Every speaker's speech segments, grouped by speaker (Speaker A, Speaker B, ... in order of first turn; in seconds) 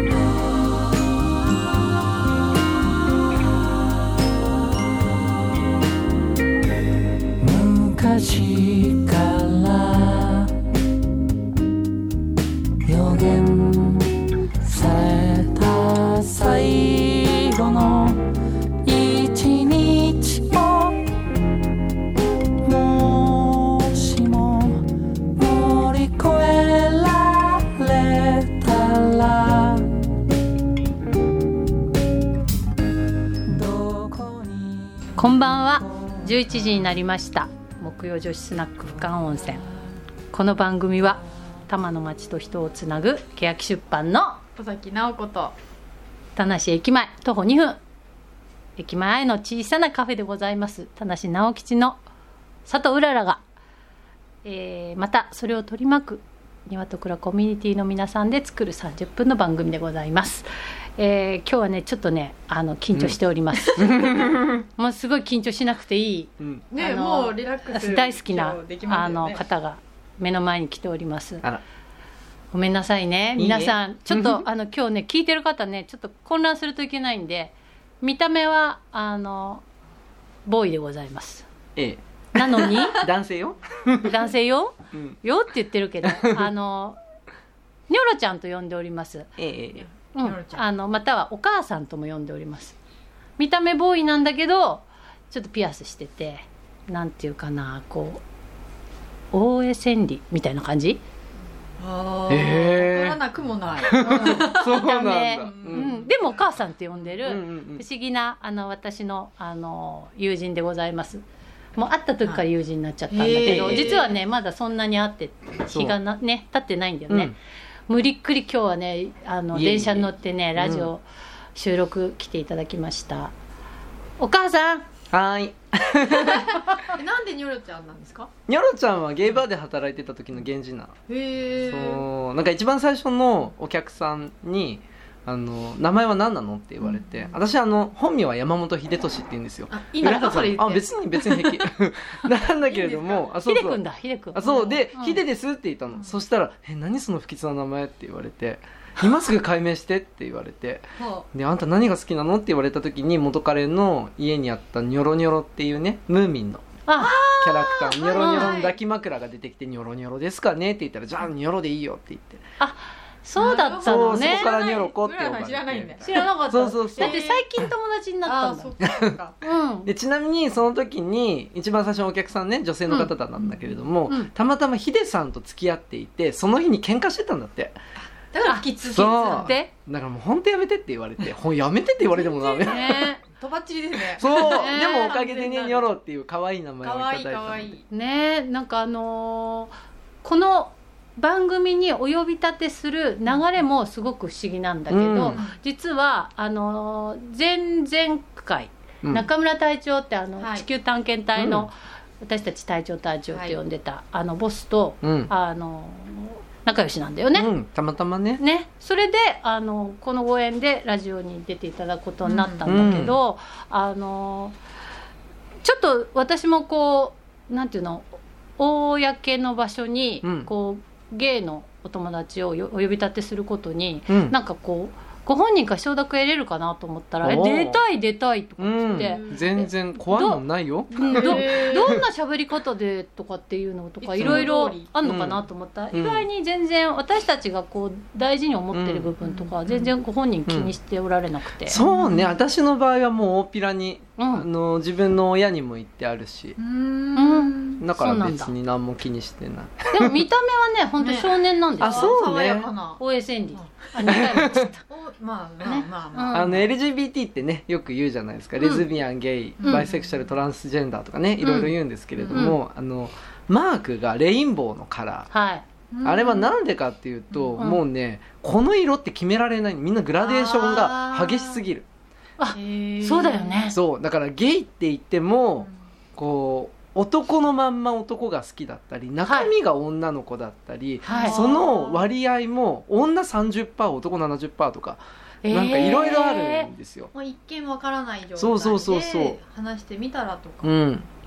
Speaker A: 7.4-10.6, 12.9-14.1, 14.6-18.2, 18.8-21.0, 22.6-24.8, 25.4-29.9, 33.5-36.9, 39.0-39.5
Speaker B: 35.2-39.6, 40.3-44.4, 46.4-47.8, 48.8-52.0, 52.7-53.4, 54.4-60.5, 61.0-64.1, 64.8-71.4, 72.5-79.6, 80.5-81.5, 82.3-83.0, 84.0-87.0, 87.9-89.3, 90.2-92.8, 93.4-98.2, 99.3-101.0, 104.0-111.2, 111.8-117.3, 117.9-121.0, 121.5-123.3, 124.2-124.9, 143.4-145.2, 156.9-157.2, 158.1-158.6, 162.6-164.5, 166.0-168.8, 169.4-169.9, 178.5-179.7, 182.6-183.2, 184.2-185.2, 187.9-189.7, 190.2-207.5, 208.4-214.6, 215.6-241.8, 244.2-244.5, 247.2-248.5, 249.9-252.2, 253.0-254.8, 255.6-256.5, 262.3-262.6, 265.3-265.6, 272.4-273.8, 279.2-279.5, 281.0-281.4, 285.4-286.7
Speaker C: 44.6-45.5, 66.7-69.4, 89.8-90.6, 101.8-104.8, 105.4-106.4, 113.1-114.1, 126.9-128.3, 131.1-132.0, 136.9-137.4, 139.7-141.7, 142.6-143.3, 151.0-151.3, 157.0-158.8, 163.4-166.3, 167.0-167.4, 168.2-169.4, 178.0-179.5, 182.1-185.9, 186.8-187.9, 195.3-195.6, 212.2-212.7, 229.0-229.5, 231.0-231.9, 234.0-234.9, 239.2-239.9, 241.8-242.3, 246.6-247.8, 251.0-253.0, 254.9-256.7, 259.6-260.1, 261.4-262.5, 265.9-266.5, 270.2-271.6, 272.5-273.6, 281.0-282.1, 287.1-290.8
Speaker D: 63.8-64.6, 66.4-66.6, 73.4-74.5, 81.8-84.2, 86.1-86.5, 89.4-89.9, 102.3-103.2, 103.9-105.9, 107.2-107.8, 113.4-114.0, 115.7-116.0, 117.1-117.3, 119.5-120.9, 125.1-126.6, 128.5-131.0, 131.7-143.8, 144.3-156.7, 157.4-162.4, 163.8-167.2, 168.8-169.1, 169.9-177.8, 178.9-183.1, 184.2-187.7, 194.9-195.4, 201.4-201.7, 205.0-205.3, 207.3-208.4, 212.7-213.2, 220.2-220.5, 224.1-224.3, 227.2-227.8, 228.6-232.0, 234.2-234.5, 235.0-236.3, 238.7-239.1, 240.5-240.7, 241.7-246.6, 247.8-250.2, 251.8-252.7, 254.1-254.7, 256.3-265.3, 266.0-271.9, 273.7-287.1, 288.4-289.4, 290.6-291.1